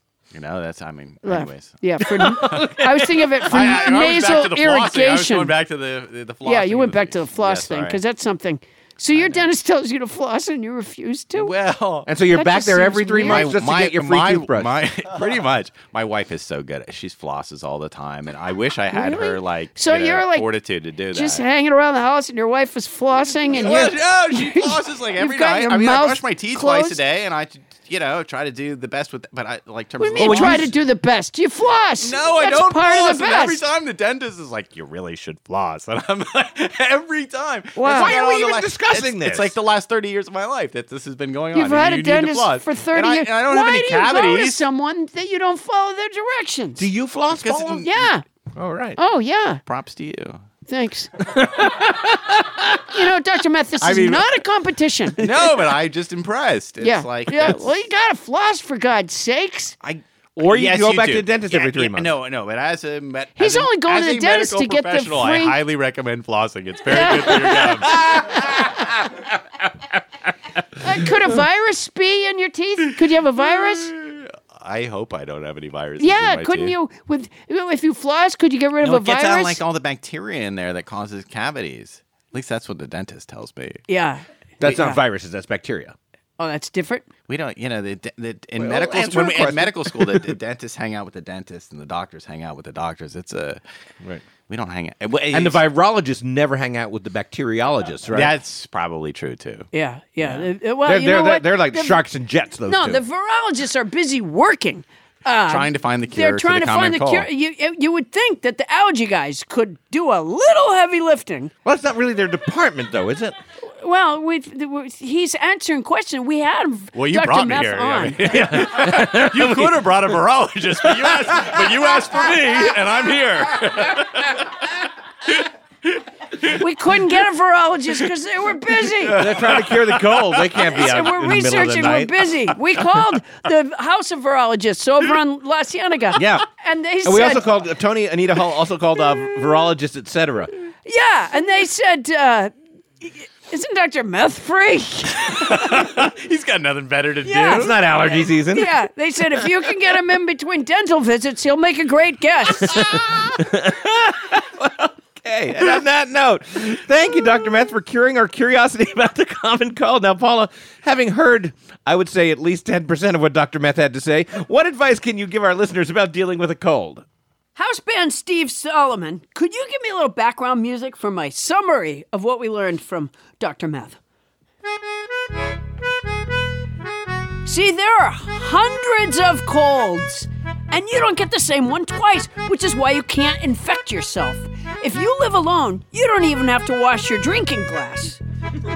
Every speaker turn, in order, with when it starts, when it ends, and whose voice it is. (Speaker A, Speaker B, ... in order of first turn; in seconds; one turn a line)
Speaker A: 0.3-8.0
Speaker B: 1.2-5.5
Speaker C: 2.1-3.5
Speaker B: 6.4-11.5
Speaker A: 9.1-9.5
Speaker A: 11.3-12.1
Speaker C: 12.1-14.7
Speaker B: 12.3-13.5
Speaker A: 13.2-21.4
Speaker B: 18.9-20.5
Speaker B: 21.1-27.0
Speaker A: 23.5-30.7
Speaker B: 30.0-33.6
Speaker C: 30.2-30.7
Speaker A: 32.0-44.6
Speaker B: 37.8-38.2
Speaker C: 37.9-39.5
Speaker B: 41.5-46.9
Speaker C: 46.8-47.9
Speaker A: 47.3-48.1
Speaker B: 47.8-48.2
Speaker C: 48.5-49.0
Speaker B: 49.0-49.6
Speaker A: 49.6-50.4
Speaker B: 50.7-51.1
Speaker C: 51.2-52.8
Speaker B: 52.9-55.2
Speaker A: 53.8-54.2
Speaker A: 55.2-57.8
Speaker C: 55.2-55.7
Speaker B: 56.8-59.8
Speaker A: 59.8-68.8
Speaker C: 60.4-62.1
Speaker B: 63.4-65.6
Speaker B: 66.9-67.9
Speaker C: 67.9-68.8
Speaker B: 70.8-73.9
Speaker A: 73.4-76.7
Speaker B: 76.0-79.6
Speaker A: 78.8-83.8
Speaker B: 83.9-85.0
Speaker C: 84.6-85.9
Speaker B: 86.4-87.1
Speaker A: 87.3-93.6
Speaker C: 88.6-90.3
Speaker A: 94.5-95.6
Speaker C: 95.3-98.3
Speaker A: 98.1-99.7
Speaker B: 99.7-102.0
Speaker A: 100.2-100.5
Speaker C: 100.8-103.0
Speaker B: 102.7-111.5
Speaker A: 105.5-107.3
Speaker C: 111.6-113.4
Speaker B: 113.8-118.3
Speaker A: 116.9-124.4
Speaker C: 118.2-120.0
Speaker C: 120.9-122.1
Speaker C: 123.0-124.0
Speaker A: 125.3-126.6
Speaker B: 126.5-129.2
Speaker A: 129.0-130.7
Speaker C: 129.2-132.5
Speaker B: 130.7-137.4
Speaker C: 136.2-136.4
Speaker C: 137.0-140.5
Speaker B: 140.8-145.9
Speaker A: 145.3-147.8
Speaker B: 147.2-152.9
Speaker C: 147.5-148.7
Speaker C: 152.7-167.0
Speaker B: 167.6-174.0
Speaker B: 177.4-188.2